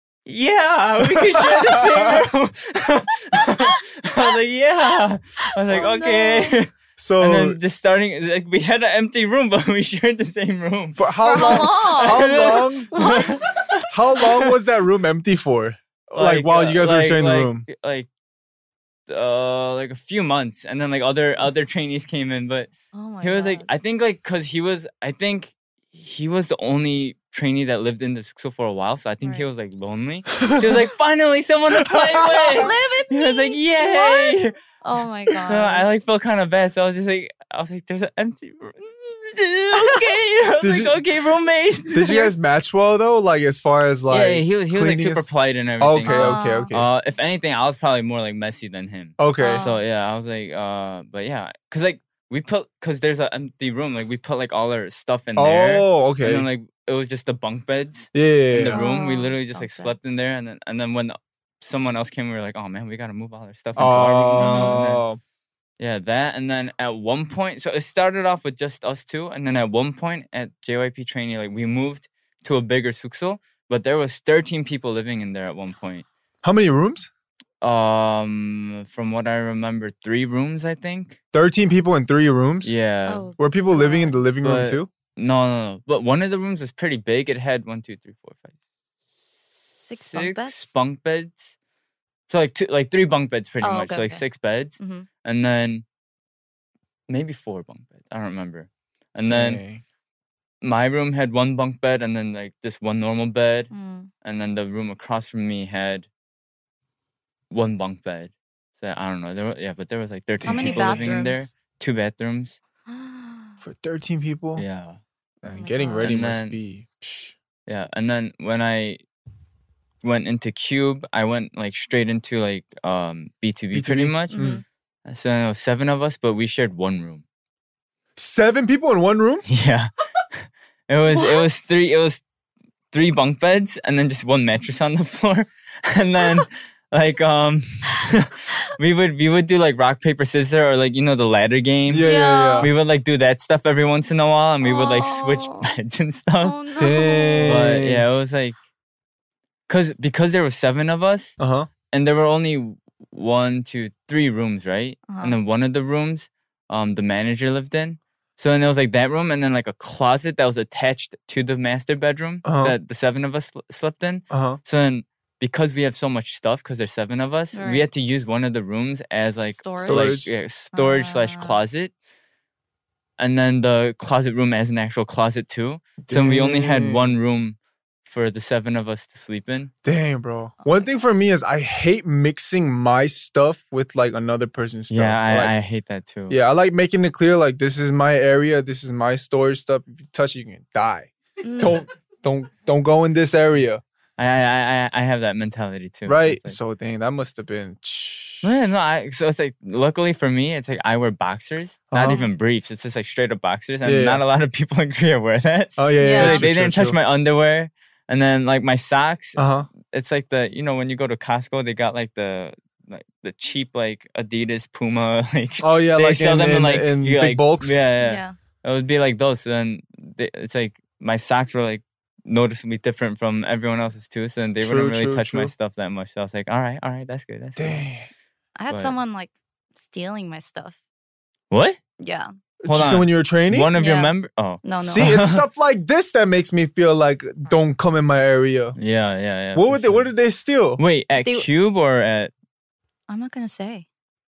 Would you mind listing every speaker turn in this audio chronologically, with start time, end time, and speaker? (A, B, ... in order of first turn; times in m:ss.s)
0:00.3-0:13.8 A
0:01.0-0:02.2 B
0:05.7-0:06.6 C
0:07.0-0:07.6 B
0:11.0-0:12.9 B
0:11.2-0:13.4 C
0:13.9-0:17.7 B
0:16.2-0:18.1 A
0:19.1-0:22.7 A
0:22.9-0:23.7 C
0:23.2-0:34.5 A
0:30.5-0:30.8 B
0:31.8-0:32.7 B
0:32.6-0:35.9 C
0:35.5-0:42.3 A
0:39.7-0:40.0 C
0:40.6-0:40.9 B
0:41.9-0:45.3 B
0:44.1-1:05.0 A
0:45.8-0:46.9 B
0:46.0-0:46.7 C
0:49.2-0:49.6 B
0:49.4-0:49.8 C
0:55.4-0:56.5 B
0:58.1-0:58.8 B
0:58.7-1:00.0 C
1:03.8-1:05.2 B
1:04.4-1:04.8 C
1:05.8-1:16.1 A
1:16.4-1:17.1 B
1:17.6-1:21.2 A
1:21.3-1:22.8 B
1:22.6-1:23.3 A
1:23.1-1:24.2 C
1:23.4-1:24.9 B
1:24.4-1:31.6 A
1:29.9-1:30.7 C
1:32.3-1:35.8 A
1:33.6-1:34.2 C
1:34.8-1:35.1 C
1:37.1-1:39.6 A
1:39.3-1:39.8 B
1:40.6-1:43.7 A
1:43.7-1:44.1 C
1:44.2-1:46.1 A
1:47.5-1:52.6 A
1:50.4-1:51.3 B
1:50.5-1:51.5 C
1:52.9-1:53.6 C
1:53.6-1:54.6 B
1:54.6-1:55.0 A
1:55.4-1:57.4 B
1:55.5-1:56.2 C
1:56.0-1:56.6 A
1:57.7-1:59.0 A
2:00.0-2:04.5 A
2:03.7-2:04.6 B
2:04.3-2:04.6 C
2:05.1-2:07.2 A
2:08.2-2:09.4 B
2:09.5-2:12.2 A
2:11.1-2:11.5 C
2:12.9-2:22.1 A
2:21.9-2:22.7 B
2:22.0-2:22.7 C
2:22.6-2:26.6 A
2:24.6-2:25.7 C
2:26.4-2:27.7 C
2:26.8-2:28.0 B
2:27.4-2:28.6 A
2:29.7-2:31.4 A
2:31.4-2:31.7 B
2:31.9-2:51.9 A
2:35.1-2:35.4 C
2:42.4-2:42.8 B
2:44.3-2:44.6 B
2:47.5-2:47.9 C
2:49.5-2:50.2 C
2:49.8-2:50.3 B
2:50.7-2:51.6 C
2:53.2-2:59.7 A
2:56.0-2:57.2 B
2:59.8-3:05.5 B
3:04.9-3:06.4 A
3:06.3-3:13.8 B
3:11.4-3:11.8 C
3:14.2-3:16.6 A
3:16.1-3:18.6 B
3:18.4-3:47.8 A
3:21.9-3:22.2 B
3:22.0-3:22.3 C
3:23.8-3:24.2 B
3:25.8-3:27.0 B
3:26.0-3:26.5 C
3:29.4-3:29.7 B
3:35.6-3:37.8 B
3:38.0-3:38.4 C
3:44.6-3:45.5 B
3:47.6-3:48.1 B
3:48.6-3:50.8 C
3:48.7-3:49.0 A
3:51.5-3:51.8 A
3:52.0-3:52.3 C
3:52.6-3:53.7 B
3:52.7-3:55.4 A
3:53.8-3:54.1 C
3:54.6-3:55.1 C
3:54.8-3:58.8 B
3:58.8-4:00.1 A
3:59.6-4:00.8 B
4:00.8-4:02.3 A
4:03.1-4:03.9 C